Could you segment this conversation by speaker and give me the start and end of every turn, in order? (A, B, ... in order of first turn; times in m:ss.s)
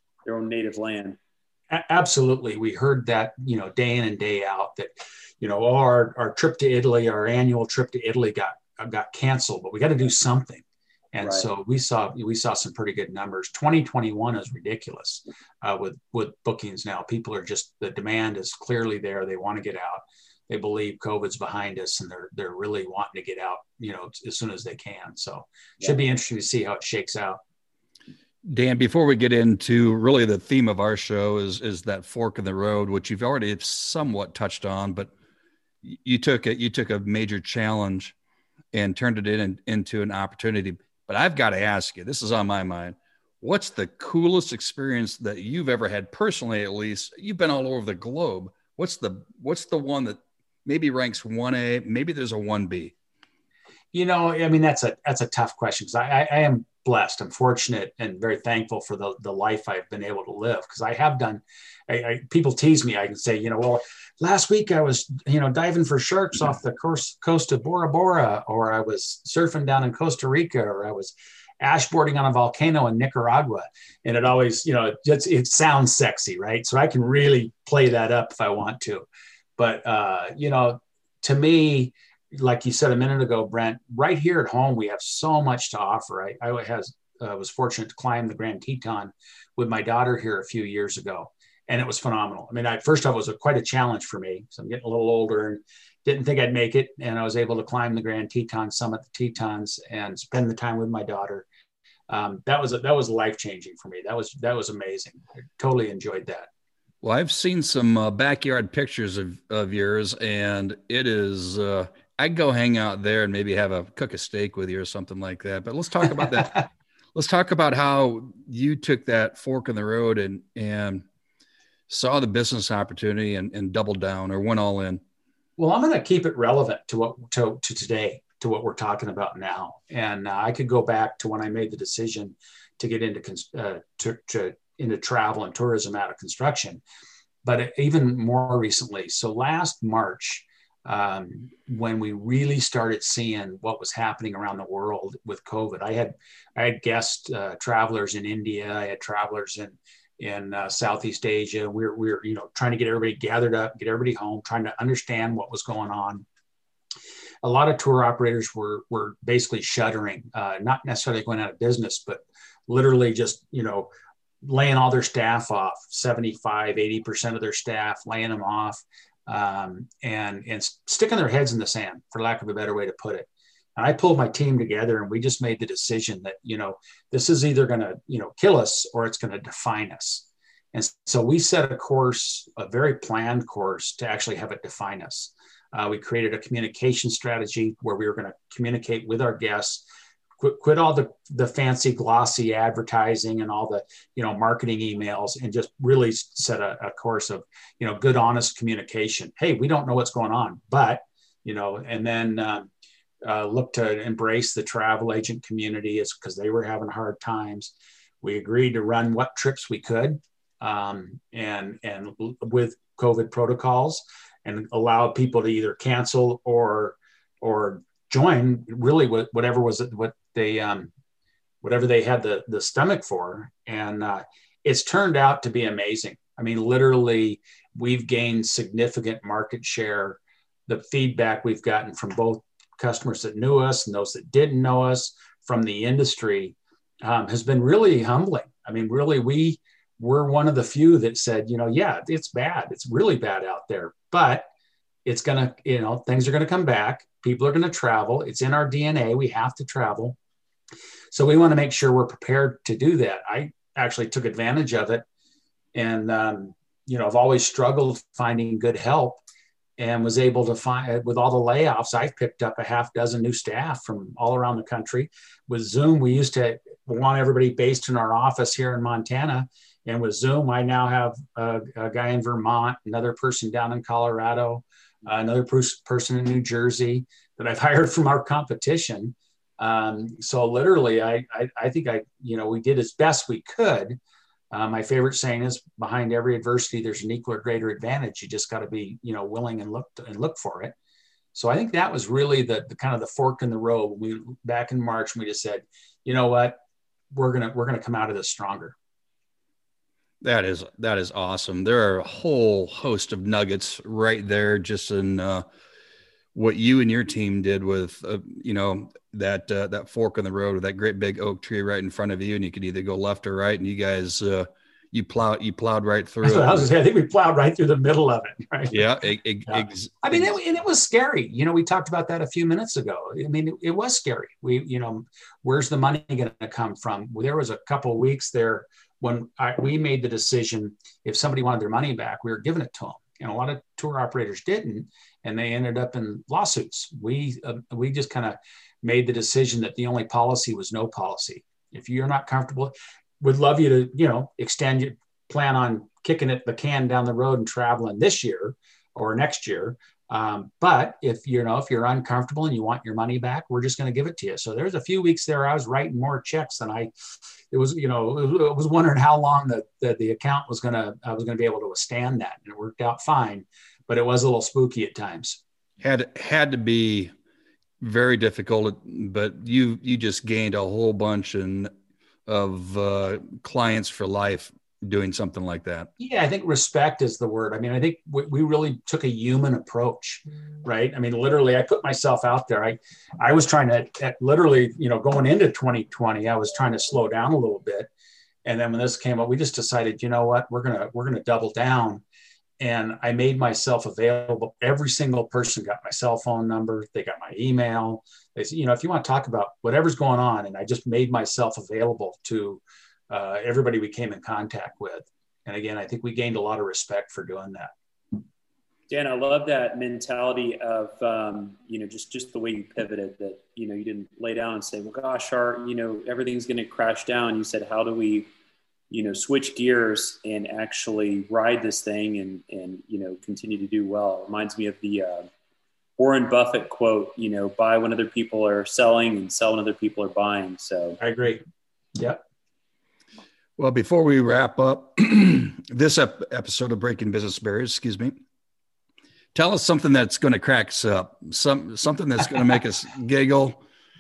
0:00.2-0:01.2 A
0:01.7-0:27.4 B
0:11.2-0:11.5 A
0:28.4-0:35.1 C
0:35.8-0:38.1 C
0:38.7-0:52.9 C
0:53.9-1:19.0 B
1:19.6-1:41.4 B
1:42.1-1:46.5 B
1:47.0-1:56.6 C
1:57.1-2:01.0 C
2:01.9-2:05.0 C
2:05.6-2:16.8 B
2:17.4-2:36.2 B
2:37.4-2:43.9 B
2:44.4-3:09.8 B
3:10.4-3:22.7 B
3:23.2-3:40.9 B
3:41.6-4:04.4 B
4:05.0-4:10.2 B
4:11.1-4:15.0 B
4:15.7-4:19.2 B
4:19.8-4:44.0 B
4:44.5-4:50.7 B
4:51.3-4:56.6 B
4:57.1-4:58.8 B
5:00.2-5:05.4 C
5:06.3-5:16.6 C
5:16.2-5:18.8 B
5:18.7-5:20.3 C
5:19.5-5:56.9 B
5:57.5-6:05.4 B
6:05.8-6:07.1 C
6:07.8-6:11.7 C
6:12.2-6:15.9 C
6:16.0-6:27.9 B
6:28.4-6:32.0 B
6:32.6-6:47.7 B
6:48.9-6:58.3 A
6:58.9-7:05.3 A
7:06.0-7:11.0 A
7:11.0-7:11.4 B
7:12.0-7:12.2 B
7:13.6-7:18.2 C
7:19.3-7:23.6 C